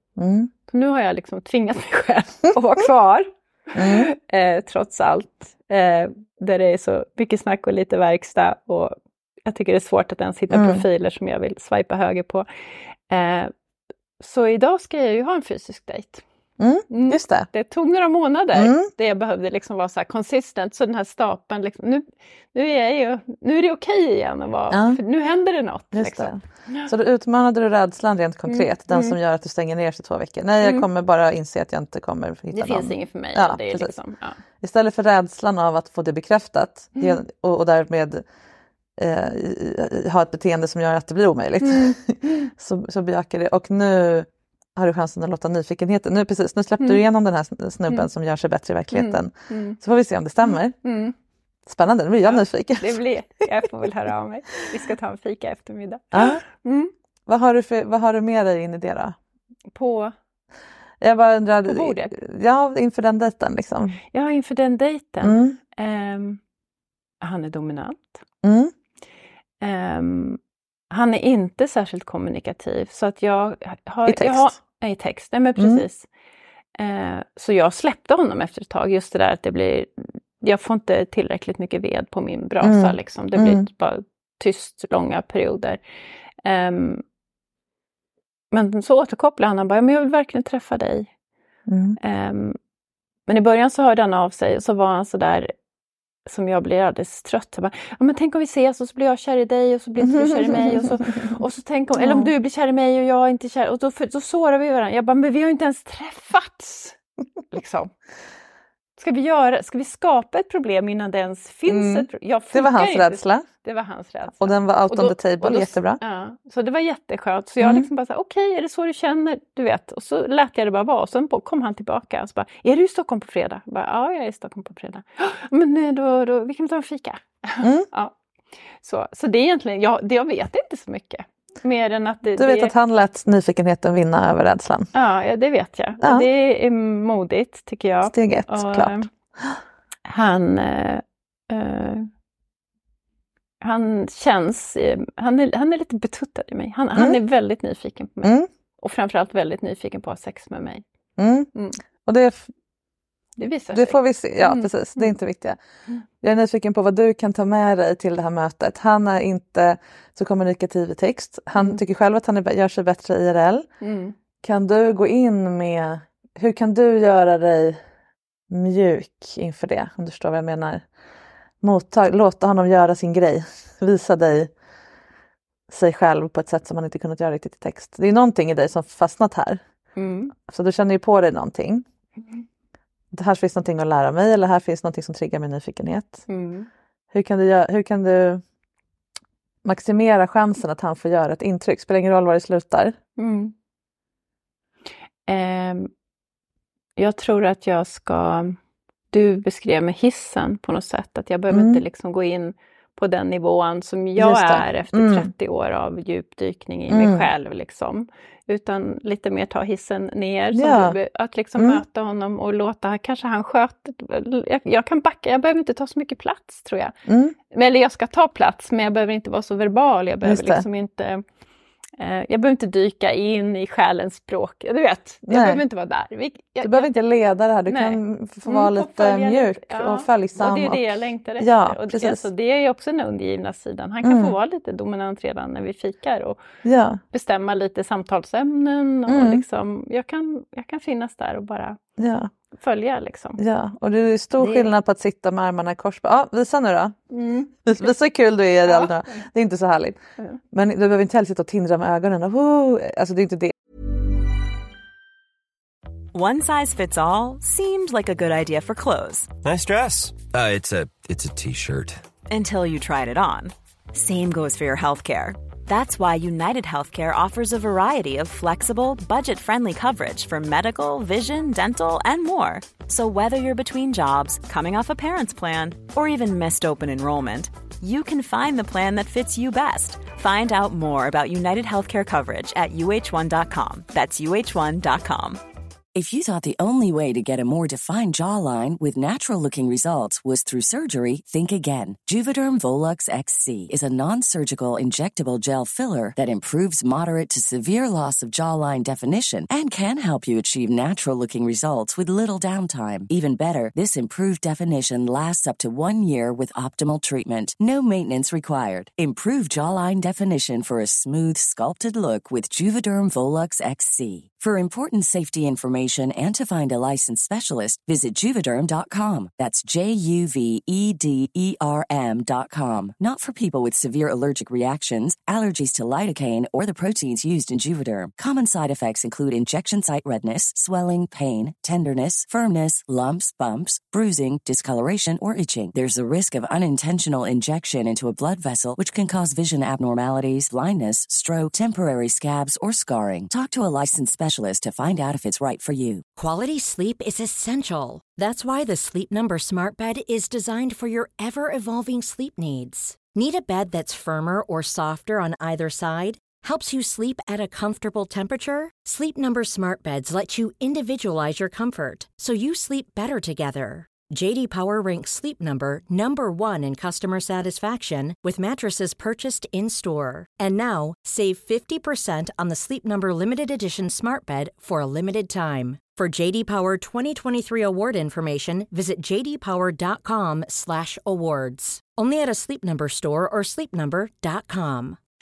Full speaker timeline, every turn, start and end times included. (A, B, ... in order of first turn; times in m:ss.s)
0:00.2-0:00.5 A
0:00.7-0:08.9 B
0:03.7-0:04.1 A
0:09.4-0:12.4 B
0:10.5-0:10.8 A
0:13.1-0:13.5 B
0:14.2-0:16.2 B
0:16.6-0:17.5 A
0:16.9-0:26.9 B
0:18.5-0:18.9 A
0:24.7-0:25.0 A
0:25.9-0:33.9 A
0:28.5-0:29.2 B
0:30.6-0:30.9 B
0:32.5-0:34.4 B
0:34.6-0:38.2 A
0:39.0-0:50.8 A
0:41.6-0:42.4 B
0:48.9-0:49.8 B
0:50.4-0:51.1 B
0:51.6-0:53.0 A
0:52.2-0:56.9 B
0:56.1-0:56.4 A
0:57.3-0:59.2 A
0:59.7-1:00.1 B
1:01.0-1:04.0 A
1:01.7-1:02.1 B
1:04.1-1:06.4 B
1:05.2-1:05.6 A
1:07.2-1:08.2 B
1:08.4-1:08.7 A
1:09.6-1:10.4 B
1:10.9-1:16.0 B
1:14.0-1:14.5 A
1:15.6-1:15.8 A
1:16.8-1:25.8 B
1:22.6-1:23.6 A
1:26.4-1:27.0 B
1:28.5-1:31.1 B
1:31.7-1:32.0 A
1:32.0-1:32.6 B
1:33.3-1:35.5 B
1:36.2-1:47.0 B
1:40.0-1:41.3 A
1:42.0-1:42.3 A
1:47.5-1:47.9 B
1:49.0-2:08.1 B
1:51.7-1:53.4 A
1:54.4-1:56.0 A
1:57.6-1:57.9 A
2:07.6-2:07.9 A
2:08.8-2:12.7 B
2:12.4-2:14.9 A
2:14.9-2:19.1 B
2:16.0-2:16.3 A
2:18.0-2:19.5 A
2:20.0-2:22.1 B
2:23.6-2:30.8 B
2:28.2-2:28.5 A
2:31.2-2:31.5 A
2:31.5-2:31.8 B
2:32.0-2:32.5 A
2:33.4-2:35.1 B
2:33.7-2:35.6 A
2:36.2-2:43.7 A
2:43.8-2:44.1 B
2:44.4-2:47.8 A
2:48.5-2:50.8 A
2:51.6-2:54.5 A
2:55.7-2:59.6 A
3:00.0-3:00.3 B
3:00.5-3:01.8 A
3:03.1-3:06.2 A
3:06.3-3:06.7 B
3:07.1-3:08.4 A
3:09.6-3:13.0 A
3:13.2-3:13.5 B
3:15.3-3:15.9 B
3:17.0-3:18.6 B
3:19.1-3:36.9 B
3:21.5-3:21.8 A
3:24.2-3:25.3 A
3:26.9-3:27.3 A
3:30.5-3:31.0 A
3:31.6-3:31.8 A
3:37.1-3:37.4 A
3:37.5-3:41.2 B
3:40.2-3:40.6 A
3:42.0-3:47.0 B
3:45.3-3:45.6 A
3:46.6-3:52.3 A
3:47.7-3:56.4 B
3:54.0-3:54.3 A
3:56.6-3:57.0 A
3:57.1-4:01.8 B
3:59.1-3:59.4 A
4:02.0-4:02.3 A
4:02.5-4:03.4 B
4:03.4-4:07.0 A
4:04.4-4:04.7 B
4:07.1-4:07.9 B
4:07.6-4:10.0 A
4:08.6-4:09.2 B
4:10.5-4:13.5 A
4:16.1-4:19.3 C
4:19.4-4:22.0 D
4:22.3-4:45.4 C
4:45.9-5:46.0 E
5:46.1-6:25.0 F